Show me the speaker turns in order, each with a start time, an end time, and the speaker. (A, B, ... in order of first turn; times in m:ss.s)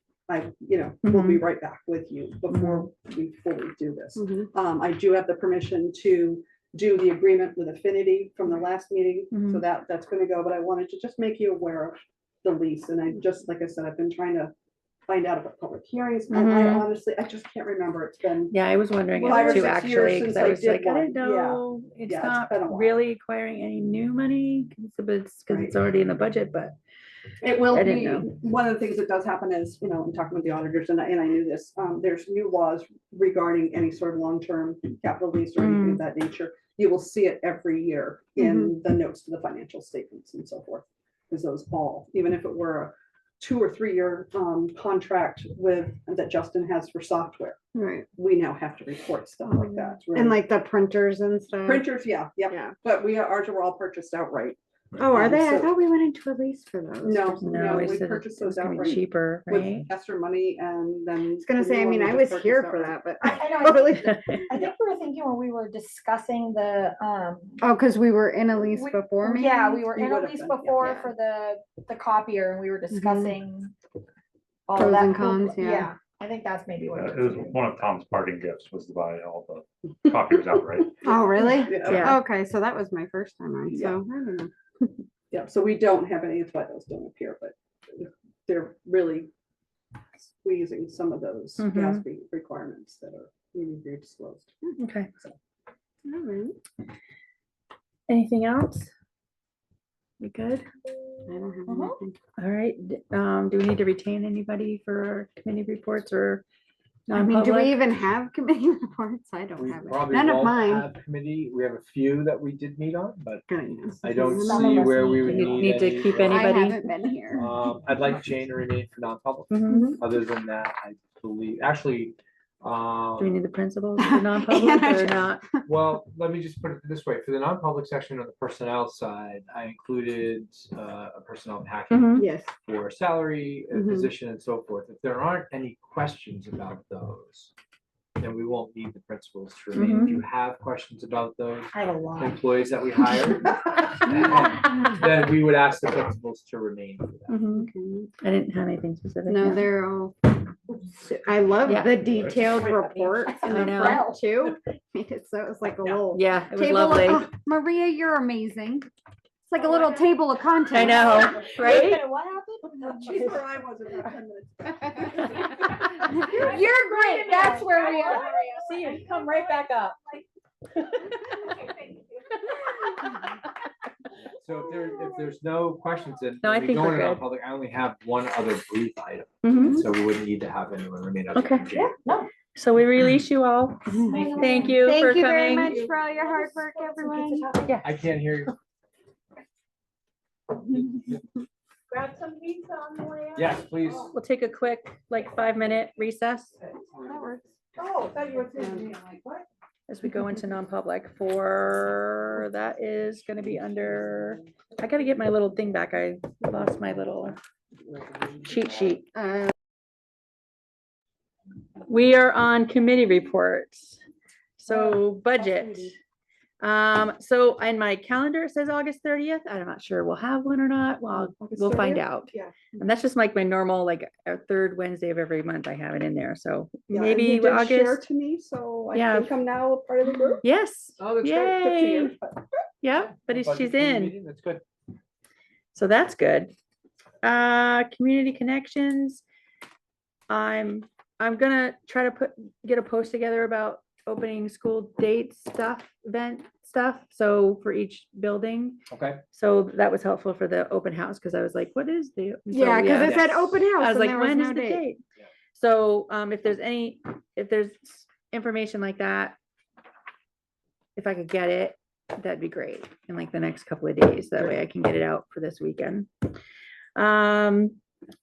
0:00.3-0:14.5 A
0:01.0-0:01.5 B
0:02.5-0:02.8 B
0:04.2-0:04.5 C
0:09.3-0:09.6 B
0:15.1-0:18.5 A
0:16.3-0:16.9 B
0:18.5-0:26.8 B
0:19.2-0:23.0 A
0:19.2-0:19.5 C
0:25.5-0:25.8 A
0:27.4-0:47.6 A
0:27.7-0:28.3 B
0:35.6-0:36.0 B
0:38.4-0:38.7 C
0:47.8-0:48.1 C
0:48.2-0:50.4 A
0:49.5-0:51.9 C
0:51.7-0:55.7 A
0:55.0-0:58.0 C
0:57.0-1:03.9 A
0:57.4-0:59.9 B
1:01.4-1:04.4 C
1:03.2-1:07.7 D
1:07.6-1:09.9 C
1:08.7-1:13.7 D
1:09.8-1:11.1 A
1:12.9-1:13.3 C
1:14.7-1:17.7 D
1:14.8-1:15.9 C
1:16.9-1:20.8 E
1:21.0-1:24.5 C
1:21.0-1:22.2 A
1:21.8-1:22.2 B
1:23.7-1:24.0 A
1:25.3-1:29.3 A
1:30.2-1:34.5 A
1:31.6-1:32.0 B
1:34.8-1:35.1 B
1:36.0-1:36.6 C
1:38.1-1:38.9 B
1:40.2-1:40.7 B
1:41.3-1:42.2 C
1:41.7-1:41.9 D
1:42.4-1:46.4 B
1:47.1-1:47.8 B
1:47.1-1:50.9 C
1:49.6-1:53.5 F
1:53.5-1:55.1 C
1:54.0-1:56.4 F
1:54.3-1:55.3 D
1:55.1-1:56.8 B
1:56.2-1:57.6 C
1:57.3-2:03.3 F
1:59.5-1:59.9 B
1:59.7-2:00.0 C
2:03.2-2:05.4 B
2:04.0-2:05.6 C
2:05.6-2:17.5 F
2:11.9-2:12.3 B
2:12.2-2:12.5 C
2:13.7-2:14.1 C
2:18.2-2:27.4 F
2:19.7-2:20.2 B
2:21.8-2:22.2 D
2:27.3-2:27.7 B
2:27.5-2:28.1 C
2:28.2-2:29.8 B
2:29.3-2:38.9 C
2:31.6-2:32.0 B
2:32.4-2:34.2 D
2:33.5-2:34.0 B
2:36.1-2:37.3 B
2:39.5-2:41.4 C
2:39.6-2:40.2 D
2:40.7-2:43.2 D
2:40.7-2:42.1 B
2:42.8-2:48.4 A
2:43.1-2:43.3 B
2:45.4-2:45.8 B
2:46.1-2:48.2 C
2:46.2-2:50.2 D
2:48.5-2:50.0 B
2:50.8-2:51.2 B
2:51.1-2:52.4 D
2:54.3-3:02.0 F
2:56.4-2:57.2 B
2:59.4-2:59.8 B
3:01.3-3:01.7 B
3:01.8-3:02.3 D
3:02.5-3:05.8 B
3:03.9-3:07.5 C
3:03.9-3:07.8 D
3:07.6-3:07.9 B
3:07.8-3:08.6 F
3:11.9-3:13.5 D
3:13.4-3:14.1 F
3:14.1-3:16.6 B
3:17.0-3:17.4 C
3:17.8-3:19.4 A
3:19.9-3:27.4 B
3:28.4-3:29.0 B
3:29.1-3:29.5 C
3:31.9-3:34.0 B
3:34.6-3:36.0 B
3:34.7-3:35.0 A
3:36.6-3:48.0 B
3:41.4-3:42.6 A
3:46.9-3:50.4 A
3:48.9-3:49.3 B
3:50.4-3:52.1 B
3:51.0-3:51.6 F
3:51.4-3:52.4 A
3:52.8-3:54.1 B
3:52.9-3:54.6 F
3:55.7-3:56.5 B
3:57.2-3:59.2 B
4:00.3-4:08.8 B
4:08.9-4:09.2 F
4:09.3-4:15.0 B
4:12.5-4:14.9 C
4:15.5-4:19.4 B
4:21.0-4:26.1 B
4:27.0-4:27.8 B